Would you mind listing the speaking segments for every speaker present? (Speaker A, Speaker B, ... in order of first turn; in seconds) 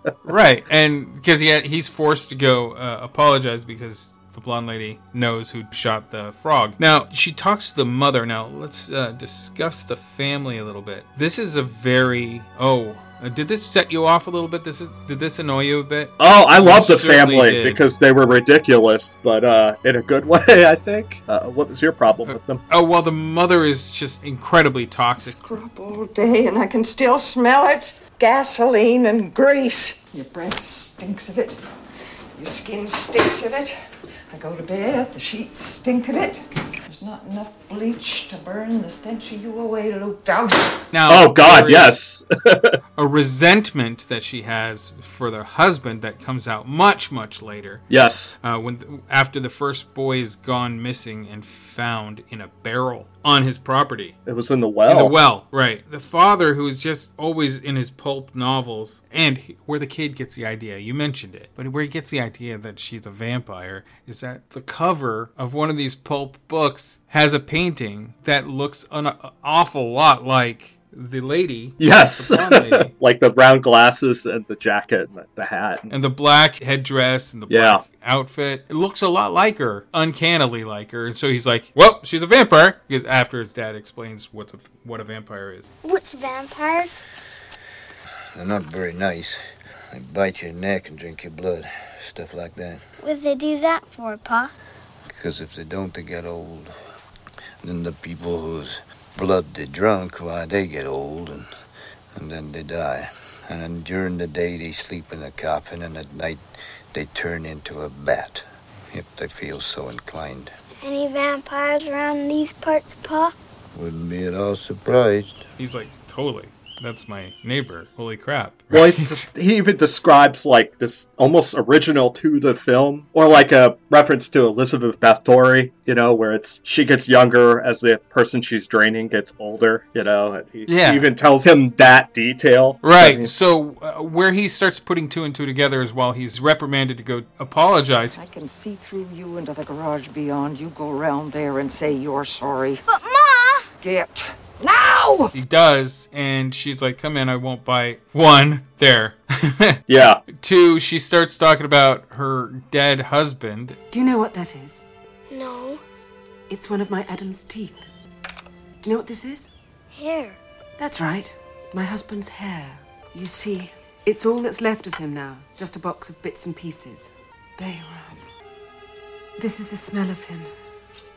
Speaker A: 0.2-17.8, 22.3-25.4, 40.9-42.0, 43.0-47.8, 48.4-54.2, 54.9-72.9, 75.9-85.7, 115.6-119.2, 130.7-131.1, 132.8-138.2, 145.3-153.8
Speaker B: 16.2-22.6, 41.1-42.8, 47.9-48.4, 54.3-55.2, 71.8-75.9, 77.5-77.8, 118.7-133.3, 149.9-150.2
Speaker C: 25.2-31.6, 32.4-33.8, 34.3-40.8, 138.1-142.8, 143.8-145.3
Speaker D: 85.8-87.0, 93.0-94.5, 110.8-113.3, 142.9-143.7, 155.3-155.8, 159.9-160.4
Speaker E: 88.3-89.4, 89.9-92.8, 95.1-96.7, 97.6-101.5, 102.2-110.5, 113.7-115.5
Speaker F: 153.9-154.8, 156.5-157.9, 158.8-159.5, 160.8-168.3, 169.4-170.5